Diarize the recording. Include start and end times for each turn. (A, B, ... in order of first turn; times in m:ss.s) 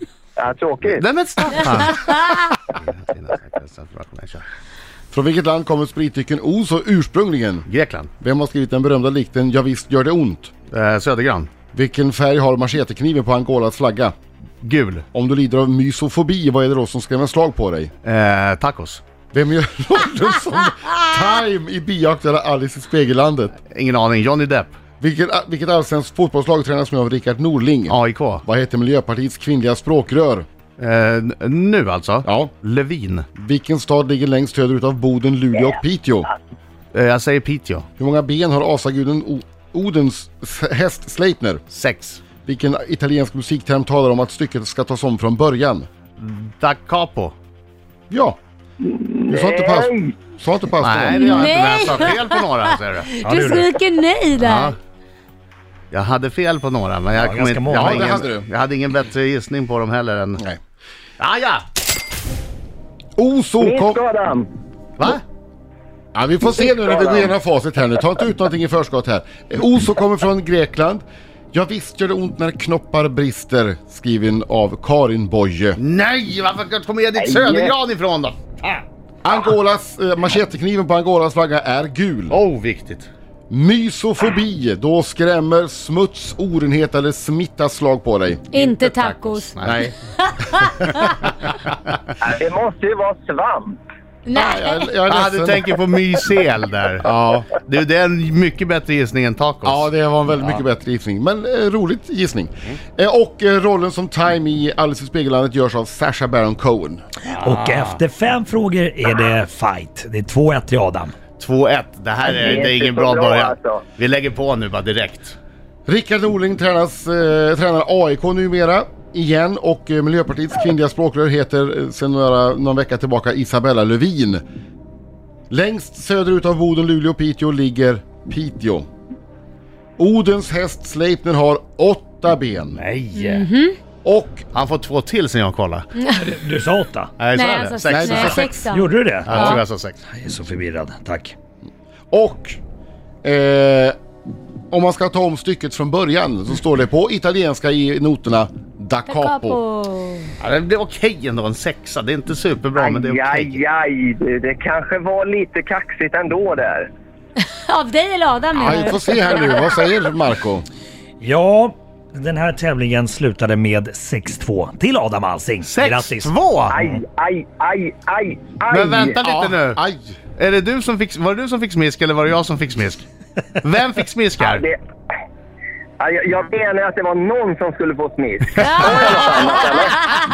0:00.4-0:01.0 A
0:00.8-0:04.4 B
0:05.1-0:07.7 C
0:07.7-0:08.1 B
0:08.2-0:10.5 C
0:10.7-0:11.5 B
0:11.7-0:14.2 C
0:14.6-0:15.0 B
0:15.1-0:17.9 C
0:18.0-0:19.0 B
0:19.3-0:23.6 C
0:23.7-0:24.8 B
0:25.0-0:30.5 C
0:27.9-0:28.4 B
0:30.8-0:33.3 B
0:32.2-0:32.5 C
0:33.4-0:36.3 C
0:36.9-0:37.9 B
0:38.0-0:41.6 C
0:41.7-0:42.2 B
0:42.4-0:45.9 C
0:46.2-0:47.4 B
0:48.1-0:48.4 C
0:48.8-0:50.2 A
0:49.3-0:52.1 C
0:50.8-0:53.2 B
0:51.1-0:52.5 D
0:53.1-0:54.7 D
0:53.2-0:53.7 E
0:54.4-0:54.8 B
0:55.9-1:00.4 B
0:57.1-0:58.1 E
0:57.7-0:58.5 C
1:01.2-1:01.7 B
1:03.2-1:04.0 C
1:03.6-1:04.5 A
1:05.0-1:05.2 B
1:06.1-1:15.8 C
1:06.6-1:07.3 A
1:15.8-1:18.8 B
1:17.2-1:17.7 A
1:19.2-1:22.4 C
1:22.3-1:23.1 B
1:23.5-1:28.5 C
1:28.5-1:29.6 D
1:28.5-1:29.9 B
1:29.6-1:29.9 C
1:30.3-1:31.1 D
1:32.2-1:33.8 A
1:34.2-1:34.9 D
1:34.3-1:35.7 C
1:35.1-1:39.9 B
1:37.0-1:37.5 C
1:39.6-1:47.0 C
1:47.3-1:51.2 E
1:47.3-1:48.0 B
1:51.4-1:55.4 B
1:52.2-1:53.8 A
1:55.9-2:04.4 C
2:05.5-2:08.9 C
2:10.0-2:12.8 C
2:12.8-2:13.5 B
2:13.2-2:13.8 D
2:14.0-2:14.5 C
2:14.5-2:15.9 B
2:16.0-2:16.3 D
2:16.2-2:17.1 E
2:17.2-2:18.5 B
2:17.3-2:19.6 D
2:17.9-2:18.6 C
2:18.7-2:21.4 E
2:19.2-2:20.0 B
2:22.1-2:22.6 C
2:23.2-2:24.0 C
2:24.7-2:29.6 C
2:29.1-2:30.3 D
2:30.4-2:33.6 B
2:32.8-2:36.9 A
2:37.5-2:39.8 D
2:38.5-2:40.7 C
2:41.2-2:47.0 E
2:45.6-2:46.7 B
2:46.7-2:49.2 A
2:48.7-2:49.8 B
2:49.2-2:50.0 C
2:50.4-2:53.0 B
2:53.6-2:54.6 B
2:54.4-2:54.8 A
2:56.0-3:00.1 A
2:58.6-2:59.0 D